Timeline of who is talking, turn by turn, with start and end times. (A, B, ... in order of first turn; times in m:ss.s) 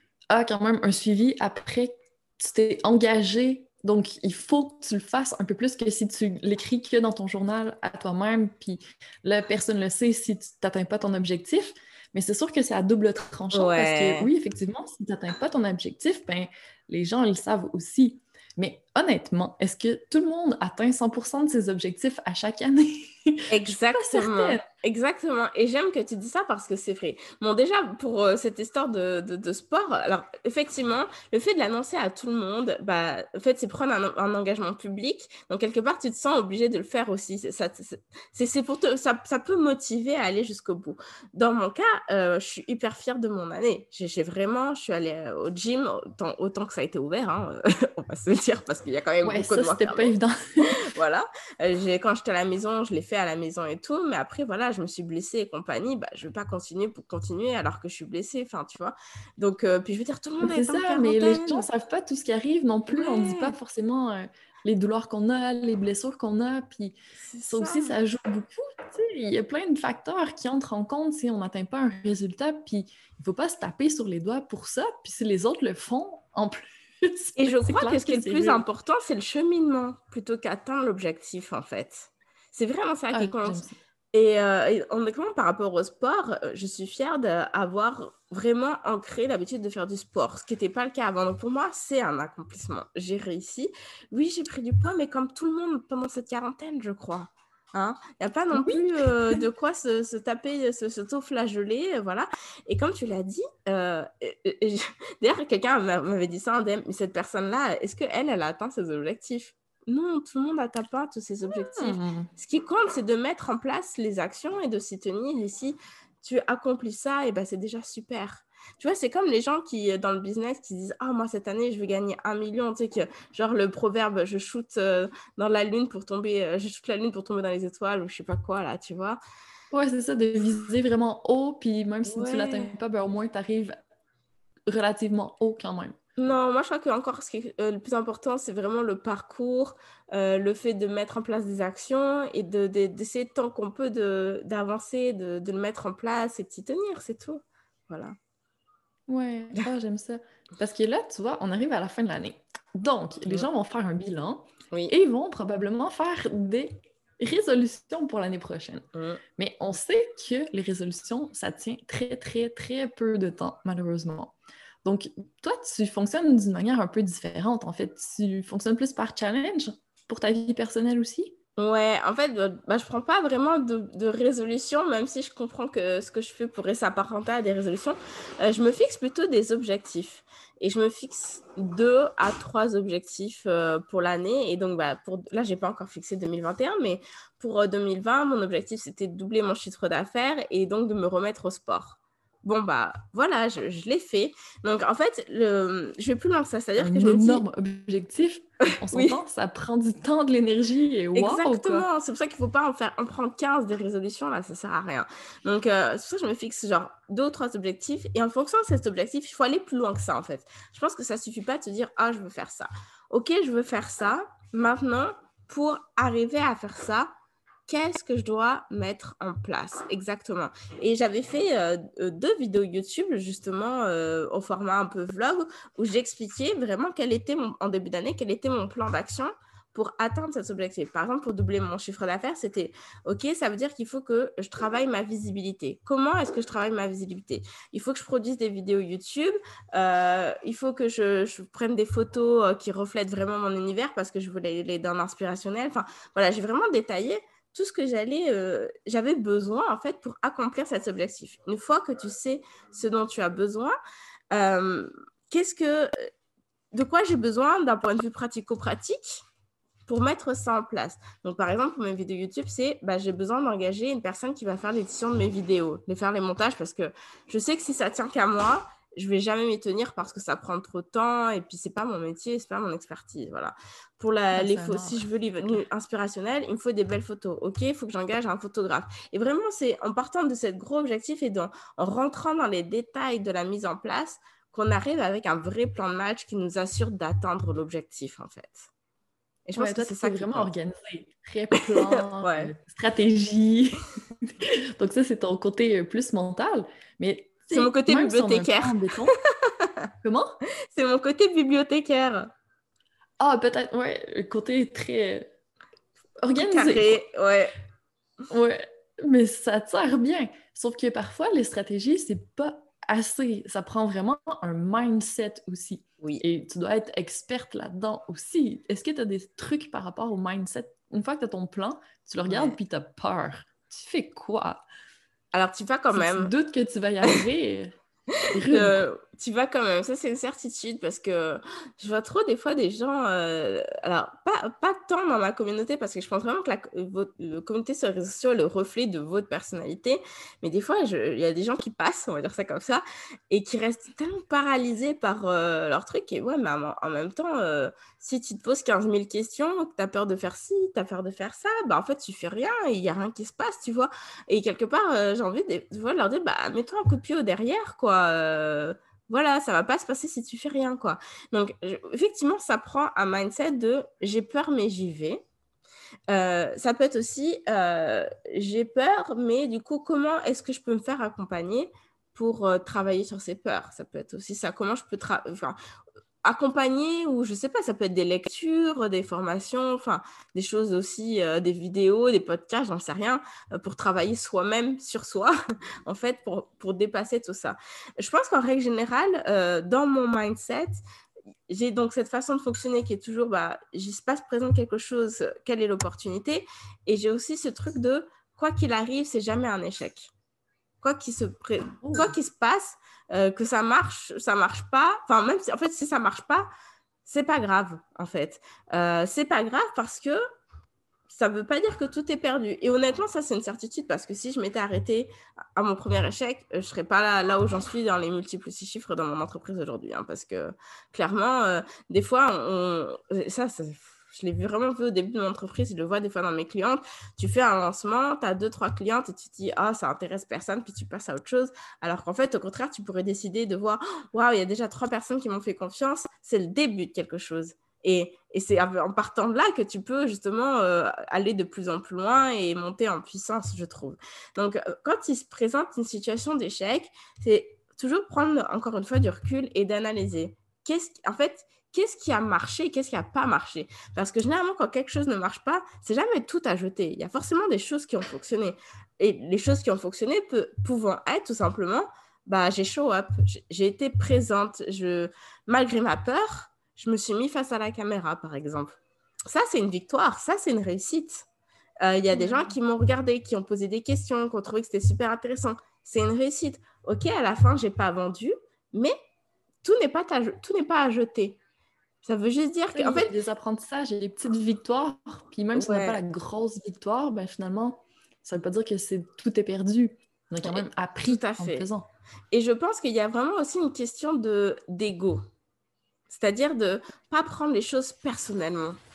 0:00.3-0:24.6 A
0:13.5-0:14.3 B
0:23.5-0:50.1 B
0:49.2-0:50.7 A
0:50.6-1:01.7 B
1:00.4-1:07.0 A
1:02.9-1:03.5 B
1:07.2-1:08.0 B
1:07.5-1:18.6 A
1:17.4-2:09.2 B
1:23.1-1:23.7 A
1:38.5-1:39.4 A
1:51.6-1:52.3 A
2:09.7-2:13.7 A
2:12.0-2:12.7 B
2:14.7-2:15.9 A
2:16.2-2:28.2 B
2:29.1-2:38.8 A
2:38.9-2:39.2 B
2:39.4-2:51.3 A
2:51.6-3:17.4 B
3:16.8-3:21.8 A
3:18.7-3:19.2 B
3:21.1-3:37.1 B
3:37.7-4:13.7 B
4:14.3-4:16.1 B
4:16.7-4:19.2 B
4:19.9-4:48.7 B
4:34.3-4:35.6 A
4:49.4-4:50.5 B
4:49.6-4:59.1 A
4:51.5-4:52.5 B
4:57.5-4:59.9 B
5:00.0-5:00.4 A
5:00.7-5:02.3 B
5:03.2-5:05.3 A
5:06.2-5:07.0 A
5:06.4-5:07.6 B
5:08.3-5:24.6 A
5:22.3-5:22.6 B
5:25.3-5:26.3 B
5:25.9-5:27.7 A
5:28.2-6:05.2 B
5:28.3-5:28.8 A
6:06.1-6:15.6 B
6:16.2-6:25.3 B
6:25.8-6:30.8 B
6:31.5-6:40.1 B
6:40.8-6:46.5 B
6:41.8-6:42.1 A
6:47.0-6:50.2 B
6:51.1-7:51.3 B
7:51.8-7:59.0 B
7:52.1-7:52.5 A
7:59.6-8:01.4 B
8:02.0-8:03.1 B
8:02.7-8:11.9 A
8:05.5-8:06.0 B
8:10.4-8:11.7 B
8:12.3-8:15.2 B
8:16.1-8:18.8 B